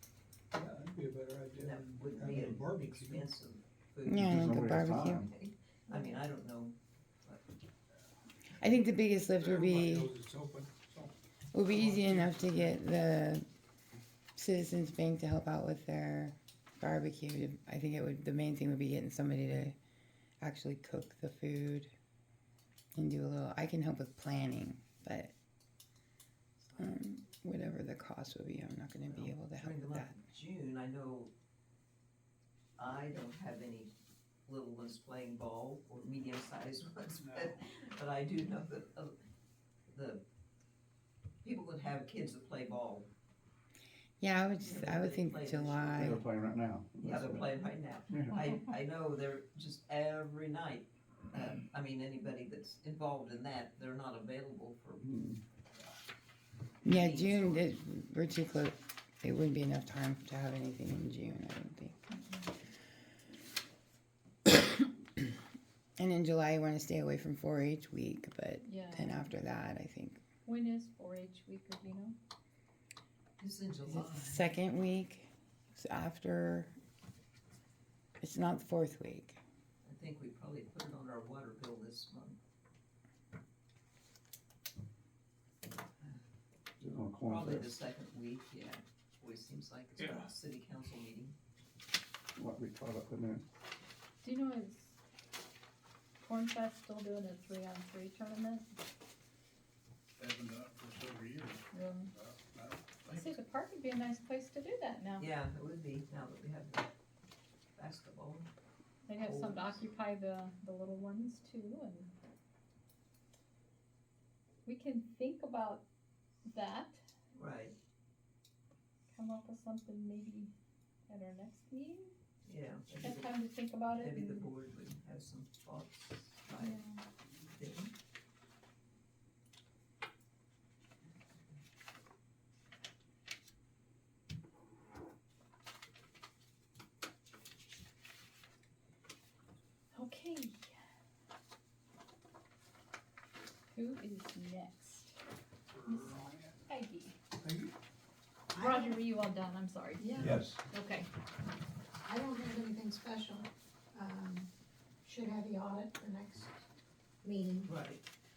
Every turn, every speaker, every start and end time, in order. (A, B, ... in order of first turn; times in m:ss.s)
0:00.5-0:03.3 A
0:01.6-0:07.4 B
0:04.0-0:05.3 C
0:04.2-0:05.3 D
0:05.9-0:06.2 E
0:08.6-0:10.1 C
0:09.4-0:11.1 A
0:11.5-0:13.4 C
0:11.7-0:12.7 A
0:14.4-0:19.8 C
0:20.4-0:21.9 C
0:23.0-0:25.3 C
0:26.6-0:27.0 B
0:26.8-0:30.1 C
0:29.1-0:31.3 B
0:32.8-0:33.9 B
0:34.4-0:39.1 B
0:37.1-0:37.6 A
0:39.9-0:40.2 B
0:41.4-0:43.1 B
0:44.2-0:46.2 C
0:44.6-0:46.2 B
0:46.0-0:47.6 D
0:47.0-0:55.1 B
0:48.1-0:48.4 D
0:55.0-0:55.4 D
0:56.8-1:02.0 C
0:56.8-0:57.7 B
1:02.1-1:02.5 E
1:04.5-1:05.2 C
1:06.0-1:10.2 C
1:08.6-1:09.2 E
1:10.4-1:12.1 E
1:13.4-1:14.5 B
1:13.9-1:16.7 C
1:18.2-1:19.4 C
1:19.8-1:22.4 B
1:26.8-1:27.8 D
1:27.0-1:31.4 B
1:30.0-1:30.3 A
1:32.4-1:33.4 D
1:34.2-1:35.0 E
1:36.2-1:38.8 E
1:40.2-1:42.8 F
1:41.7-1:42.1 E
1:43.1-1:45.3 E
1:45.2-1:46.9 B
1:47.8-1:48.5 B
1:49.1-1:52.1 E
1:49.1-1:49.8 B
1:54.6-1:55.8 E
1:56.5-1:57.0 E
1:57.3-1:57.7 B
1:59.1-2:00.5 E
2:01.1-2:02.1 E
2:02.4-2:03.3 B
2:03.0-2:04.5 E
2:03.9-2:06.8 B
2:06.5-2:07.0 E
2:07.5-2:07.9 B
2:19.9-2:20.7 E
2:23.7-2:25.2 E
2:25.7-2:26.5 A
2:25.9-2:27.2 E
2:27.4-2:27.7 A
2:28.5-2:29.0 G
2:28.5-2:31.1 E
2:32.0-2:34.5 G
2:35.0-2:36.6 G
2:37.2-2:37.7 G
2:37.6-2:38.0 B